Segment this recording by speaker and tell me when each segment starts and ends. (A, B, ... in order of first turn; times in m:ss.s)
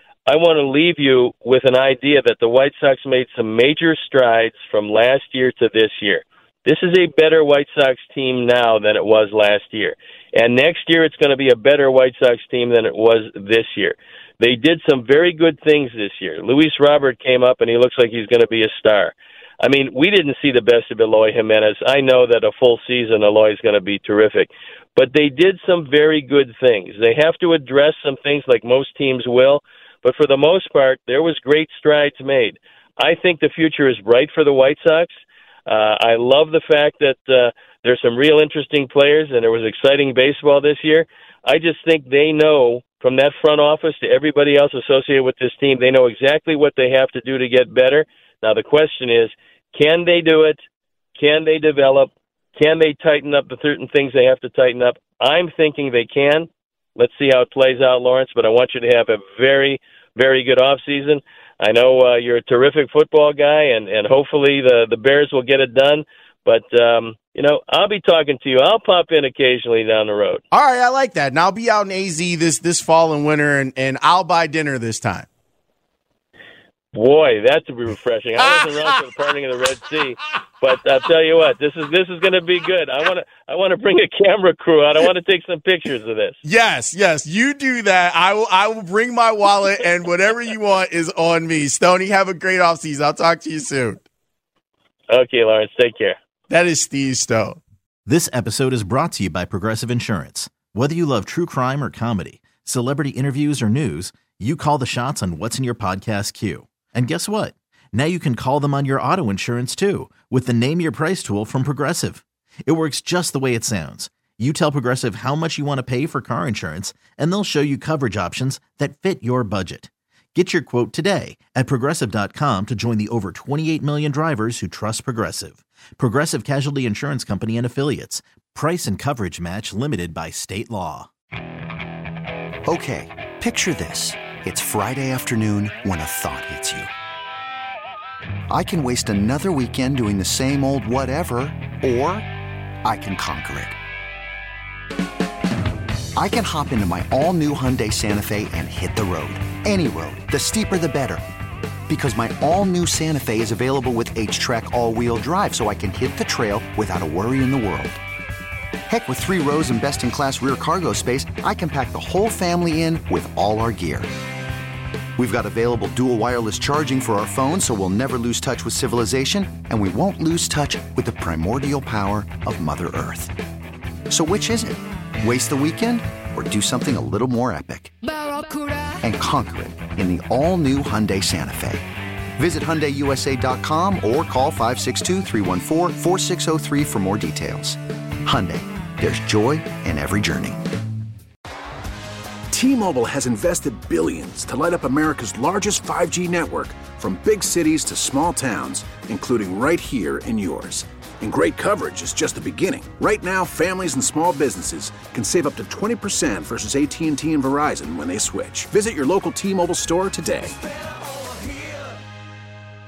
0:00.3-0:35.1 A
0:35.7-0:50.6 A
0:51.2-1:10.4 A
1:10.5-1:15.3 B
1:16.9-1:26.4 A
1:26.5-1:34.0 B
1:35.1-1:36.2 A
1:36.5-1:37.6 B
1:38.1-2:11.1 C
2:12.7-2:16.9 D
2:18.5-2:22.3 D
2:22.8-2:23.8 D
2:26.2-2:31.2 D
2:31.9-2:38.0 D
2:38.9-2:44.1 D
2:45.2-2:53.3 D
2:54.1-2:58.0 D
2:59.0-3:01.9 D
3:02.4-3:10.6 D
3:12.5-3:30.6 E